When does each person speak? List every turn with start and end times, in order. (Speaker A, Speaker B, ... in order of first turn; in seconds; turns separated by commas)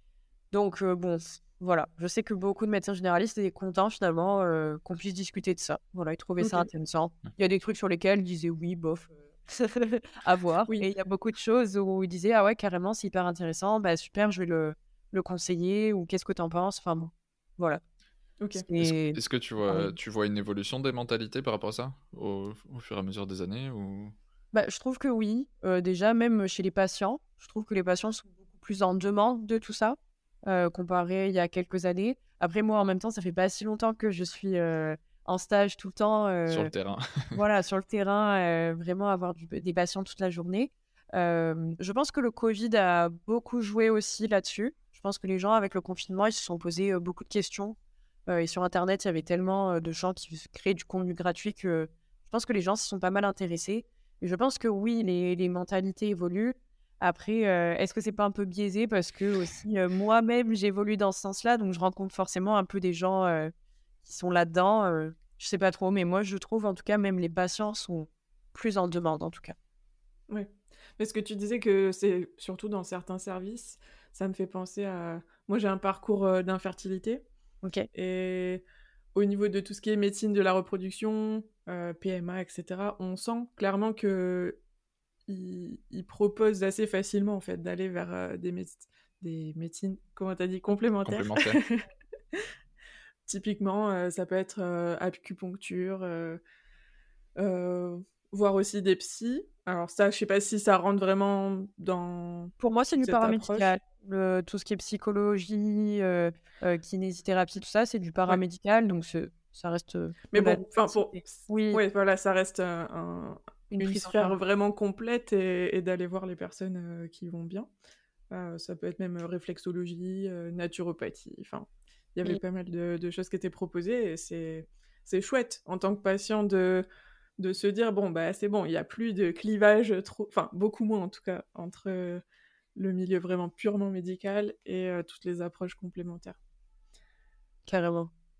Speaker A: 0.5-17.8, Speaker B: 6.4-6.7, Speaker B: 18.4-18.6, Speaker A: 18.5-19.9, Speaker C: 18.8-24.1, Speaker A: 24.5-36.7, Speaker C: 36.5-37.4, Speaker A: 37.3-47.8, Speaker A: 48.3-63.5, Speaker A: 64.0-69.5, Speaker B: 70.3-77.2, Speaker A: 77.6-77.9, Speaker B: 77.9-78.6, Speaker B: 79.2-84.6, Speaker B: 85.3-91.8, Speaker C: 91.0-91.6, Speaker B: 93.3-96.4, Speaker B: 97.4-103.7, Speaker A: 102.6-111.8, Speaker B: 110.3-117.7, Speaker A: 113.7-114.4, Speaker B: 118.3-126.8, Speaker B: 127.4-132.2, Speaker B: 132.8-136.4, Speaker A: 137.7-138.1